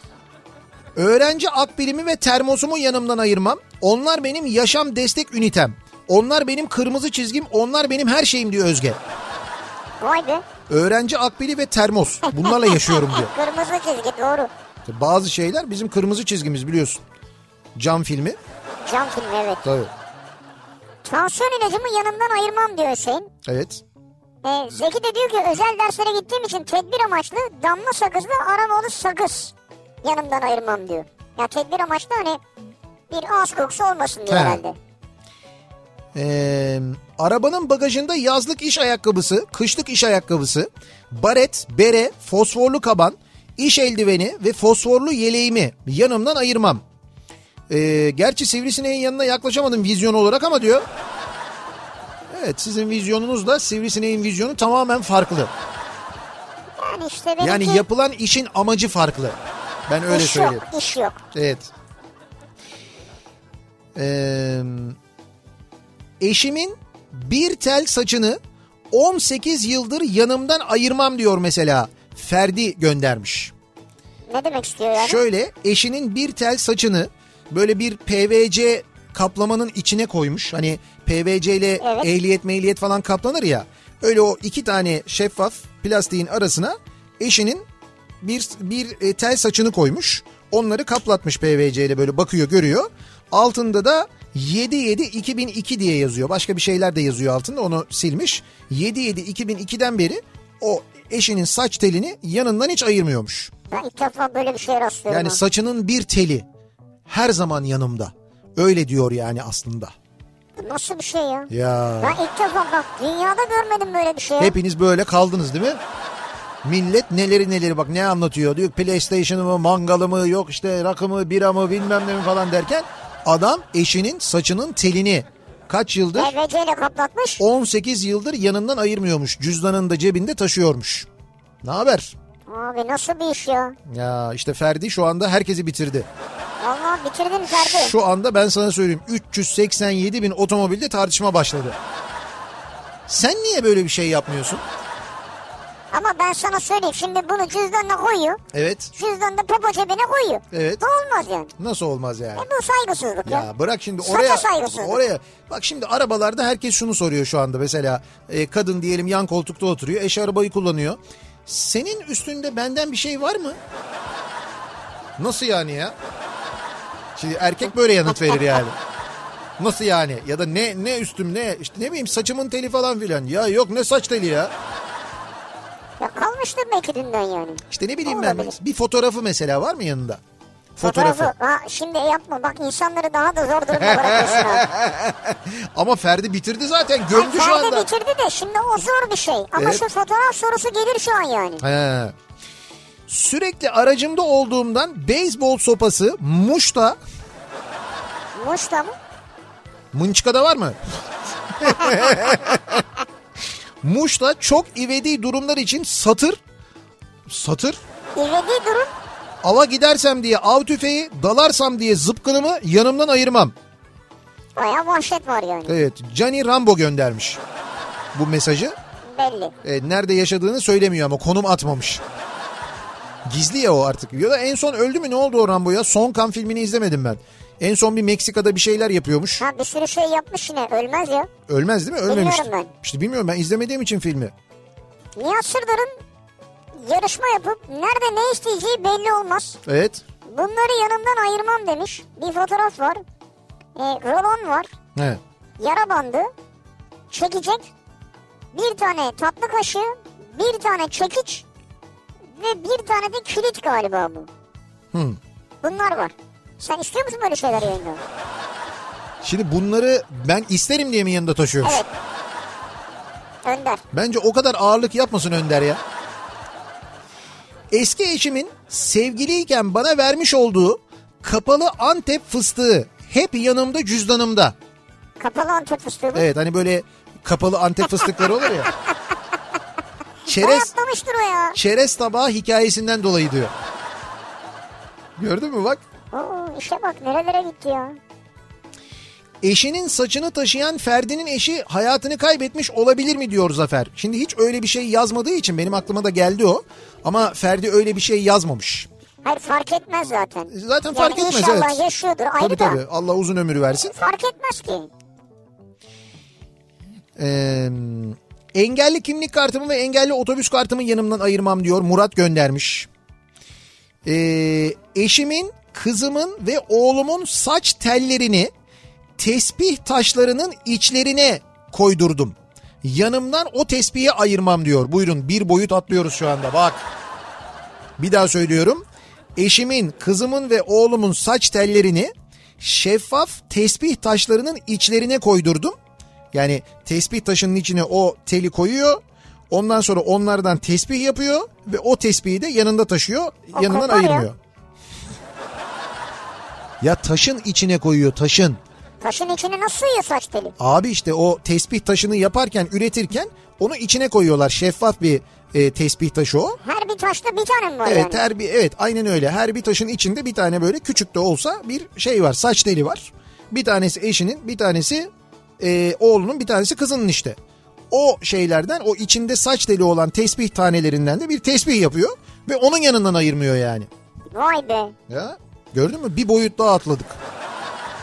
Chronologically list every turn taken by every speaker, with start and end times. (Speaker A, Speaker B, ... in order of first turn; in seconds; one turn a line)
Speaker A: 1.0-9.0
Speaker B: 10.0-10.4
Speaker A: 10.7-13.3
Speaker B: 12.3-14.5
Speaker A: 14.9-17.0
Speaker A: 17.8-18.4
Speaker B: 18.8-19.6
Speaker A: 19.6-19.9
Speaker B: 21.1-23.3
Speaker A: 23.5-23.8
Speaker B: 24.4-32.4
Speaker B: 33.1-34.8
Speaker A: 34.3-34.6
Speaker A: 36.1-46.8
Speaker A: 47.7-50.8
Speaker A: 52.3-55.5
Speaker B: 56.8-57.8
Speaker A: 57.4-59.4
Speaker A: 59.9-60.6
Speaker B: 60.1-61.2
Speaker A: 61.3-61.7
Speaker A: 64.0-65.0
Speaker A: 66.2-68.4
Speaker A: 68.9-73.5
Speaker B: 74.3-75.2
Speaker A: 75.0-87.7
Speaker B: 81.8-82.1
Speaker A: 88.2-103.5
Speaker B: 103.7-105.4
Speaker A: 105.1-106.5
Speaker A: 107.1-109.9
Speaker B: 110.6-111.5
Speaker A: 111.5-112.2
Speaker B: 112.0-114.5
Speaker A: 114.4-115.8
Speaker A: 116.6-126.3
Speaker B: 126.2-127.4
Speaker A: 127.4-131.1
Speaker A: 131.6-132.2
Speaker B: 132.5-133.8
Speaker A: 133.9-136.1
Speaker B: 136.6-137.9
Speaker A: 137.5-141.8
Speaker A: 143.1-144.6
Speaker B: 145.9-148.4
Speaker A: 148.5-148.9
Speaker B: 148.9-151.5
Speaker A: 150.5-150.8
Speaker A: 151.6-152.5
Speaker B: 152.4-153.5
Speaker A: 153.3-163.6
Speaker B: 154.0-155.0
Speaker A: 165.2-165.9
Speaker A: 167.2-168.8
Speaker A: 169.6-174.5
Speaker B: 176.0-178.6
Speaker A: 177.7-180.2
Speaker A: 180.8-181.3
Speaker B: 180.8-184.7
Speaker A: 183.7-187.9
Speaker B: 187.1-191.6
Speaker A: 189.6-189.8
Speaker A: 191.6-192.2
Speaker A: 193.1-197.0
Speaker B: 198.3-199.0
Speaker A: 199.9-200.8
Speaker A: 201.6-202.8
Speaker A: 203.8-206.4
Speaker A: 207.3-207.8
Speaker B: 208.2-208.9
Speaker A: 209.4-213.5
Speaker B: 214.6-215.8
Speaker A: 215.7-217.4
Speaker A: 218.1-218.8
Speaker B: 219.1-219.5
Speaker A: 219.6-222.0
Speaker A: 223.3-229.4
Speaker B: 229.4-231.3
Speaker A: 231.5-234.3
Speaker B: 232.1-232.7
Speaker B: 235.2-236.0
Speaker B: 236.8-239.6
Speaker A: 239.7-240.0
Speaker B: 240.3-243.0
Speaker B: 243.8-244.7
Speaker B: 245.6-246.3
Speaker B: 247.1-247.7
Speaker B: 248.5-251.4
Speaker B: 252.3-254.3
Speaker A: 254.9-255.2
Speaker B: 255.6-258.0
Speaker A: 259.2-261.8
Speaker B: 261.6-261.9
Speaker B: 263.4-263.8
Speaker A: 263.9-265.8
Speaker A: 267.7-274.6
Speaker B: 275.2-276.3
Speaker A: 276.1-278.7
Speaker A: 280.3-280.7
Speaker B: 280.3-281.6
Speaker A: 281.6-283.5
Speaker A: 285.2-285.8
Speaker B: 286.1-288.0
Speaker A: 289.4-298.9
Speaker B: 299.2-302.8
Speaker A: 300.5-301.8
Speaker A: 302.4-303.9
Speaker B: 303.9-304.9
Speaker A: 307.2-312.9
Speaker A: 314.1-318.5
Speaker A: 319.2-326.9
Speaker A: 328.0-328.8
Speaker A: 329.4-335.8
Speaker A: 336.3-339.0
Speaker A: 339.5-344.4
Speaker B: 343.5-344.3
Speaker A: 346.8-348.6
Speaker B: 349.0-350.5
Speaker A: 350.6-356.6
Speaker B: 356.6-358.2
Speaker A: 357.9-365.1
Speaker A: 365.6-367.4
Speaker A: 367.9-373.9
Speaker B: 374.3-374.9
Speaker A: 375.1-377.2